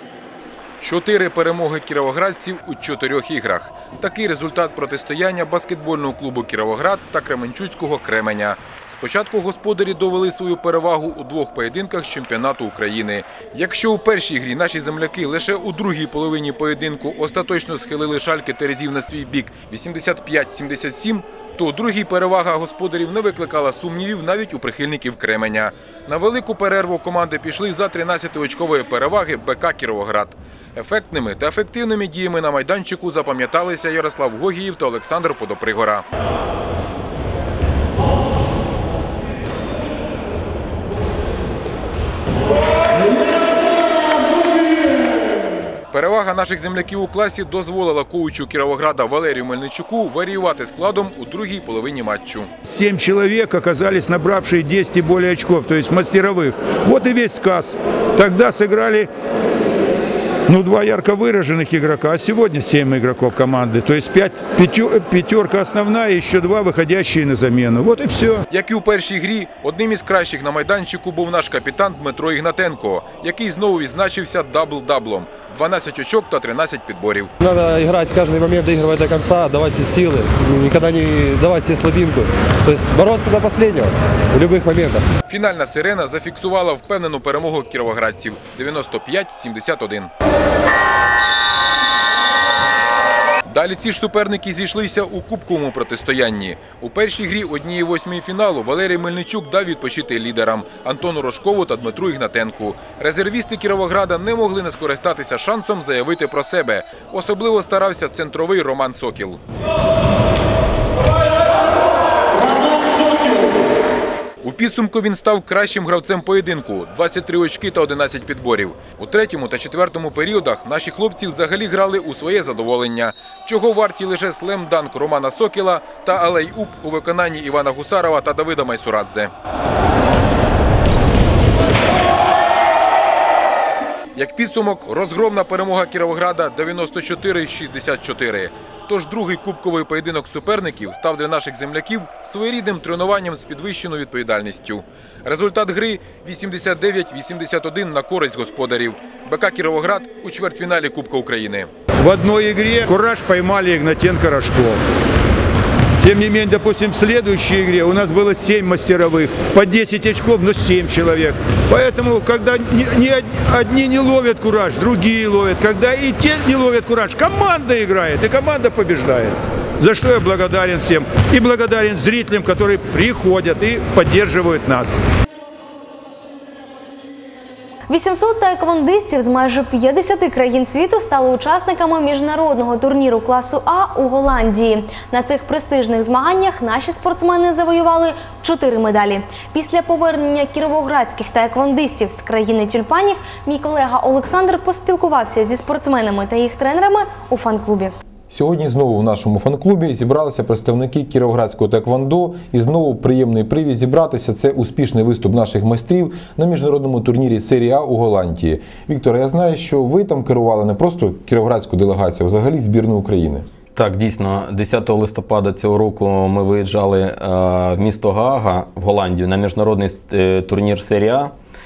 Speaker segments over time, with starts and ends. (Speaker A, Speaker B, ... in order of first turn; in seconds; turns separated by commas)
Speaker A: 0.8-36.0, Speaker A: 45.9-52.5, Speaker B: 52.6-59.1, Speaker B: 60.5-68.4, Speaker A: 68.5-77.3, Speaker C: 77.4-85.1, Speaker A: 85.3-90.1, Speaker A: 93.5-109.4, Speaker A: 114.4-129.3, Speaker A: 134.2-151.7, Speaker B: 152.0-154.8, Speaker B: 156.0-175.0, Speaker D: 177.9-197.9, Speaker E: 198.3-213.5, Speaker F: 213.8-221.3